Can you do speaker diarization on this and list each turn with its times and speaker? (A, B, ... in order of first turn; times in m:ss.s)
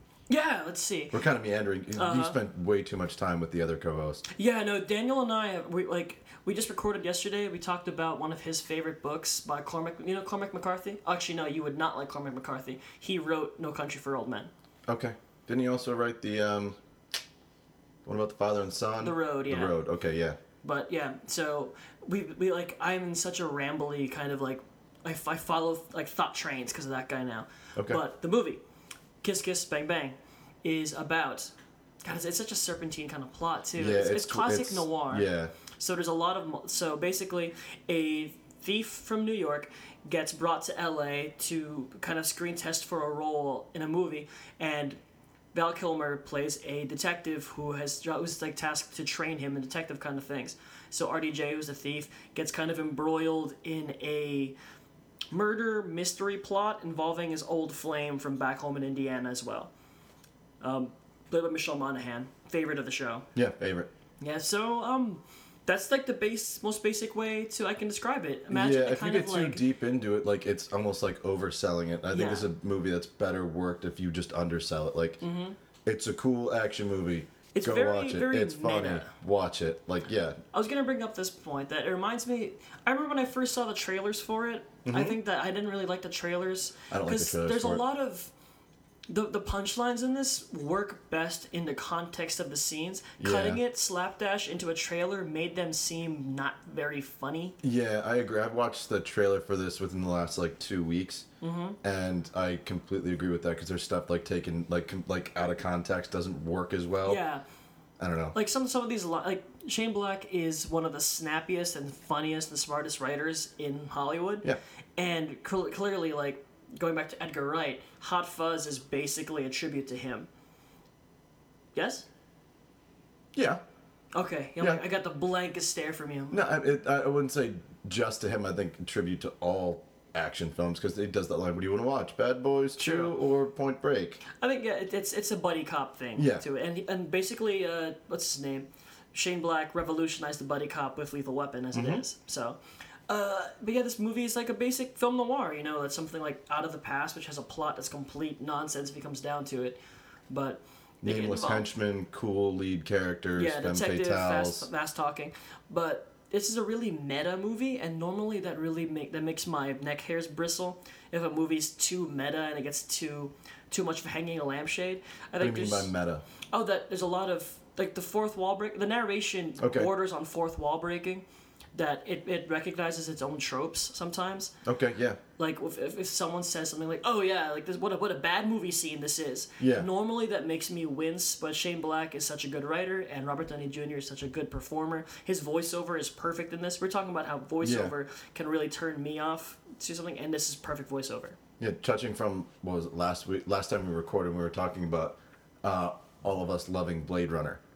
0:00.3-0:01.2 A
0:01.1-0:04.2 B
0:01.9-0:02.4 A
0:04.3-0:14.5 A
0:14.9-0:16.8 B
0:18.0-0:20.4 B
0:19.0-0:19.8 A
0:20.6-0:28.6 A
0:27.8-0:28.0 B
0:29.2-0:31.5 A
0:32.0-0:45.0 A
0:33.8-0:35.5 B
0:45.5-0:54.6 A
0:55.3-0:59.7 A
1:00.6-1:03.2 A
1:03.3-1:03.9 B
1:04.2-1:09.6 A
1:08.5-1:15.2 B
1:12.1-1:12.5 A
1:15.2-1:15.6 A
1:15.8-1:20.4 B
1:17.5-1:19.1 A
1:20.5-1:28.3 A
1:24.8-1:25.2 B
1:26.9-1:27.8 B
1:29.1-1:37.6 A
1:33.2-1:33.6 B
1:37.6-1:41.3 B
1:41.4-1:41.8 A
1:41.8-1:47.2 B
1:47.0-1:47.4 A
1:48.0-1:48.4 B
1:48.3-2:00.3 A
2:01.7-2:02.0 A
2:03.3-2:03.6 B
2:04.1-2:06.4 A
2:04.6-2:04.8 B
2:06.3-2:14.2 B
2:12.8-2:13.1 A
2:14.3-2:22.6 A
2:16.2-2:16.4 B
2:21.7-2:22.0 B
2:23.1-2:29.8 A
2:30.3-2:31.7 A
2:31.0-2:34.7 B
2:33.4-2:45.9 A
2:45.4-2:46.2 B
2:46.5-2:54.5 A
2:49.6-2:49.9 B
2:54.6-2:55.2 B
2:55.4-3:11.4 A
2:59.6-2:59.9 B
3:07.6-3:07.9 B
3:11.6-3:17.6 B